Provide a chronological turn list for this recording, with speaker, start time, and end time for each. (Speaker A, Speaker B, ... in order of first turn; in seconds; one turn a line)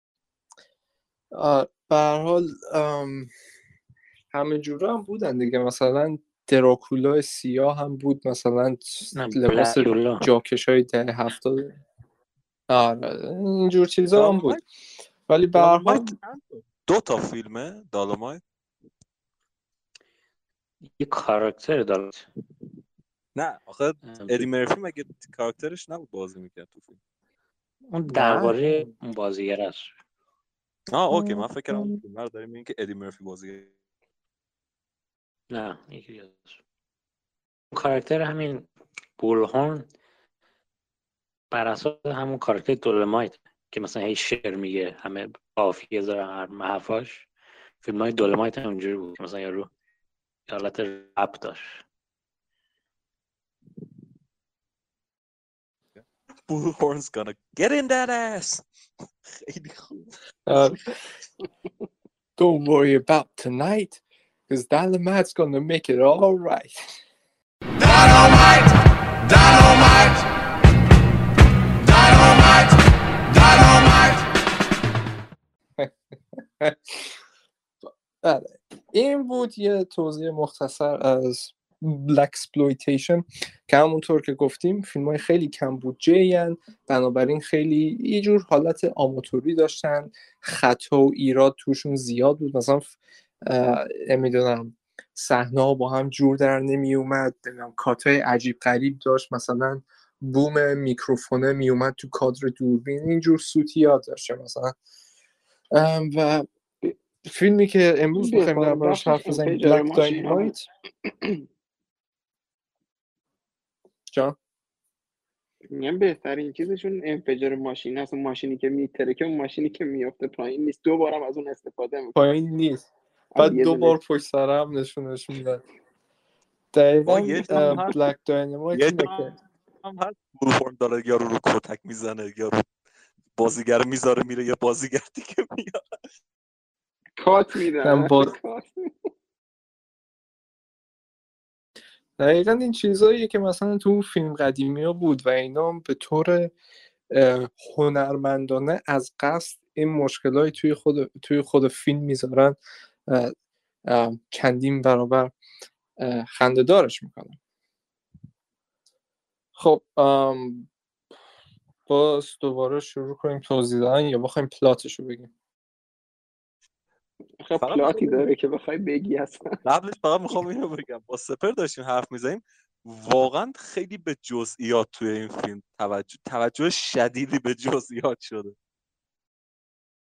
Speaker A: 1.3-3.3
Speaker A: 4.3-11.7
Speaker B: 9.1-10.3
Speaker A: 12.7-14.6
Speaker C: 14.1-14.6
Speaker A: 15.3-16.1
Speaker C: 15.5-18.4
Speaker B: 20.9-22.3
Speaker C: 23.3-27.0
Speaker B: 24.0-24.5
Speaker B: 27.9-29.9
Speaker A: 28.1-28.9
Speaker C: 30.9-33.7
Speaker B: 35.5-36.6
Speaker B: 37.7-39.9
Speaker B: 41.5-47.3
Speaker B: 47.8-49.7
Speaker B: 50.5-51.8
Speaker C: 56.5-58.6
Speaker C: 59.2-60.6
Speaker A: 60.5-60.9
Speaker A: 62.4-66.7
Speaker D: 67.8-68.5
Speaker D: 69.3-70.2
Speaker D: 71.9-72.5
Speaker D: 73.3-73.9
Speaker A: 75.8-77.1
Speaker A: 78.2-104.8
Speaker A: 105.7-106.5
Speaker A: 107.2-110.7
Speaker E: 108.2-110.5
Speaker E: 111.0-111.4
Speaker A: 114.1-114.3
Speaker E: 115.7-122.3
Speaker A: 122.1-125.6
Speaker E: 123.3-124.0
Speaker A: 126.7-129.3
Speaker C: 127.0-128.0
Speaker C: 128.7-132.6
Speaker C: 133.4-135.8
Speaker E: 137.2-138.9
Speaker A: 137.8-138.3
Speaker A: 142.2-146.5
Speaker A: 147.1-153.3
Speaker A: 153.8-155.3
Speaker A: 156.0-157.4
Speaker A: 159.6-160.7
Speaker A: 161.9-165.3
Speaker E: 167.4-169.4
Speaker C: 167.6-168.2
Speaker C: 169.6-178.5